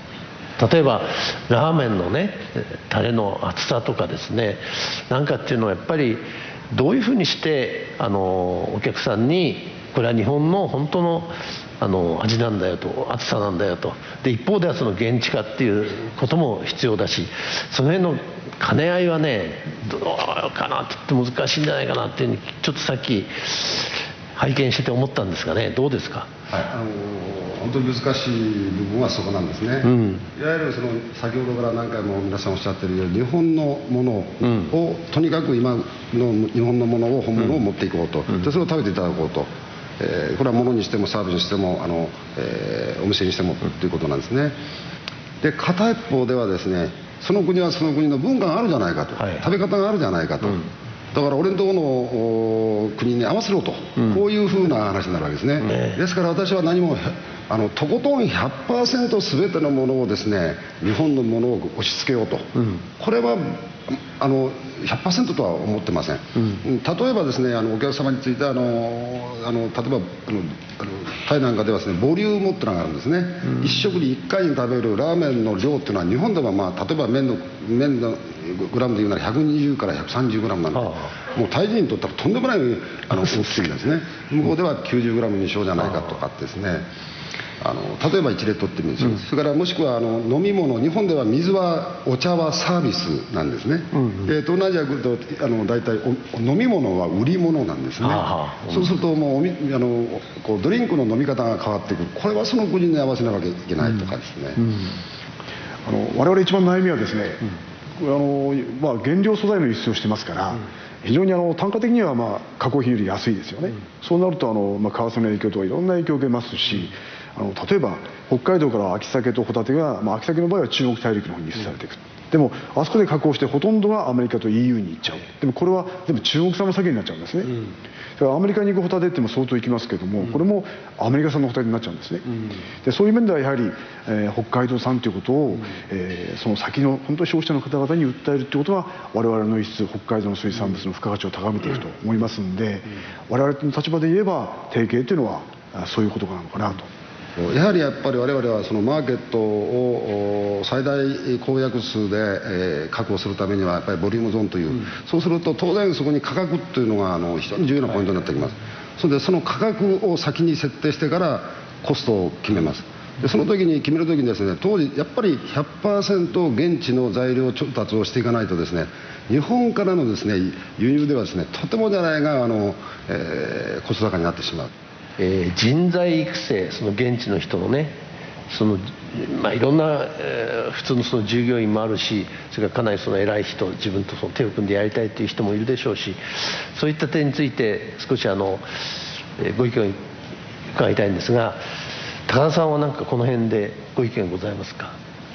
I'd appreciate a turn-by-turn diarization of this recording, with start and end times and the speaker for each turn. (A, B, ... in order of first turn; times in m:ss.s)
0:00.6-0:26.3 A
0:26.5-0:44.6 B
0:29.9-0:30.2 A
0:45.4-0:50.6 B
0:51.1-1:26.8 B
0:55.6-0:56.0 A
1:20.8-1:21.1 A
1:27.6-1:44.6 B
1:38.0-1:38.9 A
1:45.8-1:47.4 C
1:48.0-2:07.5 C
2:08.2-2:12.3 C
2:12.8-2:26.9 C
2:27.4-2:54.7 B
2:55.2-2:58.0 A
2:58.5-3:08.6 A
3:09.4-3:10.0 A
3:10.7-3:11.6 A
3:12.3-3:15.0 A